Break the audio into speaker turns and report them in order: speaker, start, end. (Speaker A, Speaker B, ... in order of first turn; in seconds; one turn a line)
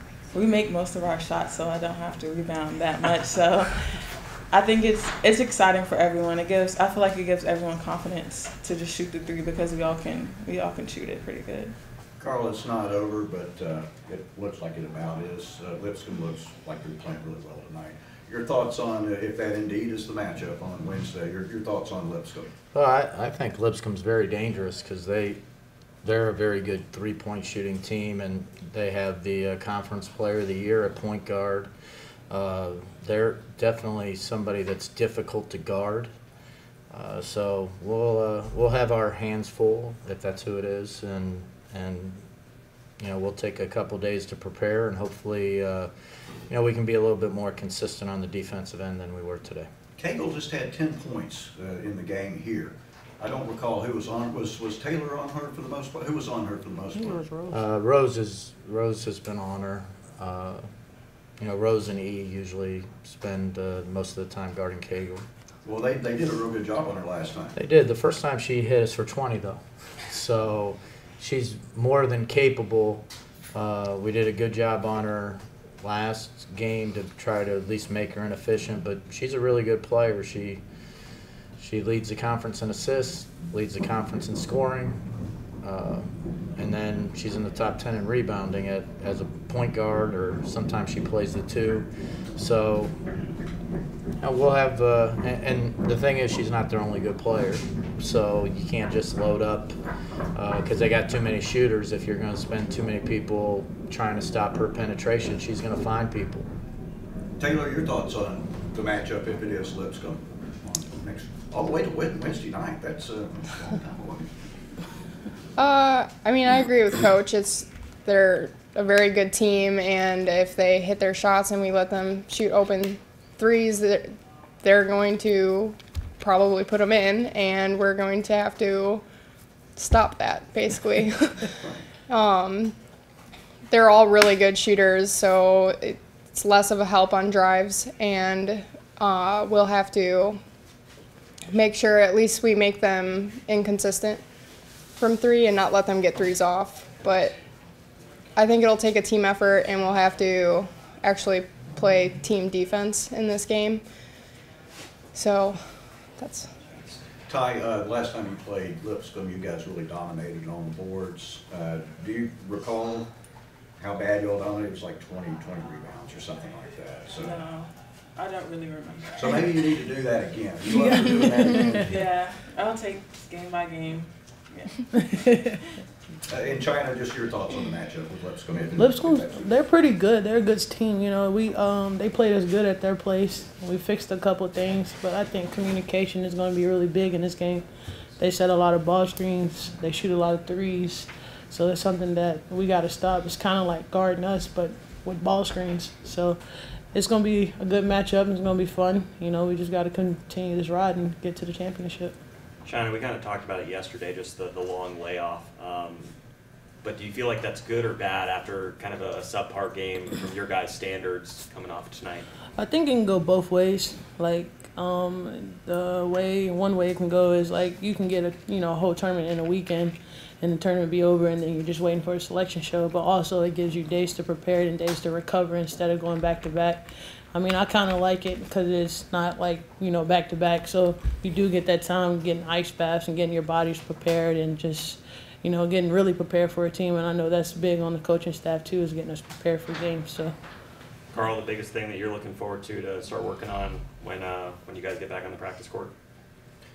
Speaker A: 0.3-11.7
Speaker B: 12.2-22.5
Speaker C: 22.7-25.4
Speaker C: 26.0-31.7
Speaker C: 32.3-36.1
Speaker C: 36.9-42.2
Speaker C: 43.0-45.9
Speaker C: 46.5-49.7
Speaker B: 50.0-57.2
Speaker D: 56.9-57.6
Speaker C: 57.5-60.6
Speaker C: 61.4-65.2
Speaker B: 65.6-67.5
Speaker C: 67.5-80.6
Speaker C: 81.6-85.0
Speaker C: 85.6-92.9
Speaker C: 94.2-99.7
Speaker C: 100.3-106.5
Speaker B: 107.4-114.3
Speaker E: 115.6-124.1
Speaker E: 124.6-129.0
Speaker E: 129.8-132.7
Speaker E: 133.7-140.4
Speaker E: 141.5-144.2
Speaker E: 145.0-147.3
Speaker E: 148.3-153.8
Speaker E: 155.1-156.5
Speaker B: 157.3-163.1
Speaker B: 163.8-167.4
Speaker A: 167.2-169.8
Speaker B: 169.2-172.1
Speaker D: 170.7-171.9
Speaker A: 170.8-171.1
Speaker A: 171.8-174.8
Speaker D: 174.9-175.6
Speaker B: 176.3-179.5
Speaker D: 178.8-187.6
Speaker D: 188.2-196.4
Speaker D: 196.9-202.2
Speaker F: 202.6-206.1
Speaker F: 206.8-212.2
Speaker D: 212.6-240.3
Speaker F: 241.1-245.9